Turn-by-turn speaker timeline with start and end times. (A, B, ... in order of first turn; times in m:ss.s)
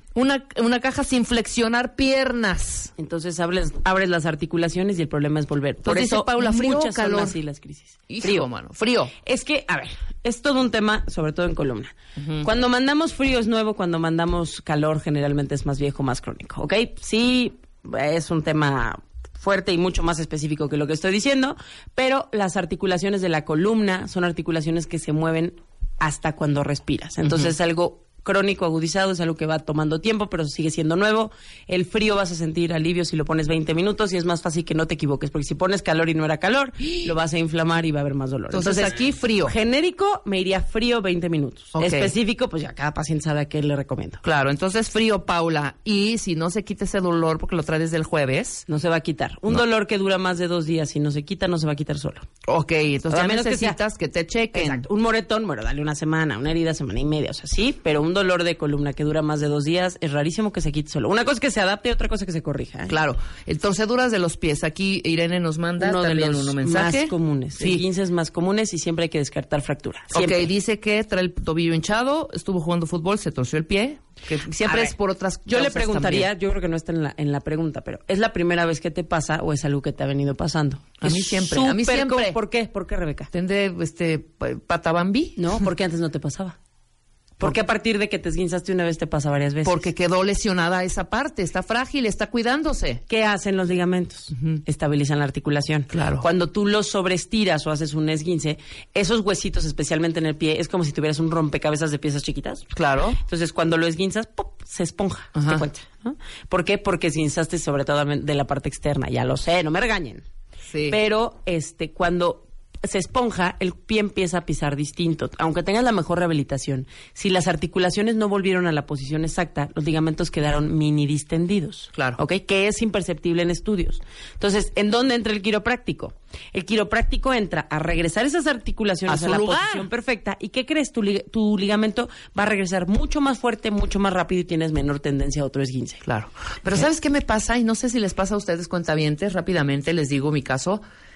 0:00.2-0:02.9 A
0:03.0-0:08.5 B
0:05.8-0:07.4 A
0:08.1-0:09.1 A
0:09.2-0:44.2 B
0:12.2-0:12.5 A
0:27.2-0:27.5 A
0:38.5-0:39.6 A
0:41.7-0:42.1 A
0:44.2-0:48.6 A
0:48.7-0:52.3 B
0:52.5-0:54.8 A
0:53.1-0:53.8 B
0:54.5-1:02.9 B
1:02.9-1:07.8 A
1:05.8-1:10.5 B
1:10.1-1:16.3 A
1:14.6-1:14.9 B
1:15.5-1:23.3 B
1:21.0-1:22.4 A
1:23.3-1:25.4 A
1:25.4-1:26.6 B
1:27.4-1:29.9 B
1:29.6-1:33.0 A
1:33.1-1:42.6 B
1:34.3-1:34.6 A
1:35.9-1:36.3 A
1:42.7-1:43.2 A
1:43.2-1:50.2 B
1:45.3-1:45.7 A
1:50.7-1:51.0 A
1:50.9-2:16.0 B
2:01.9-2:02.2 A
2:09.1-2:09.9 A
2:16.0-2:20.8 A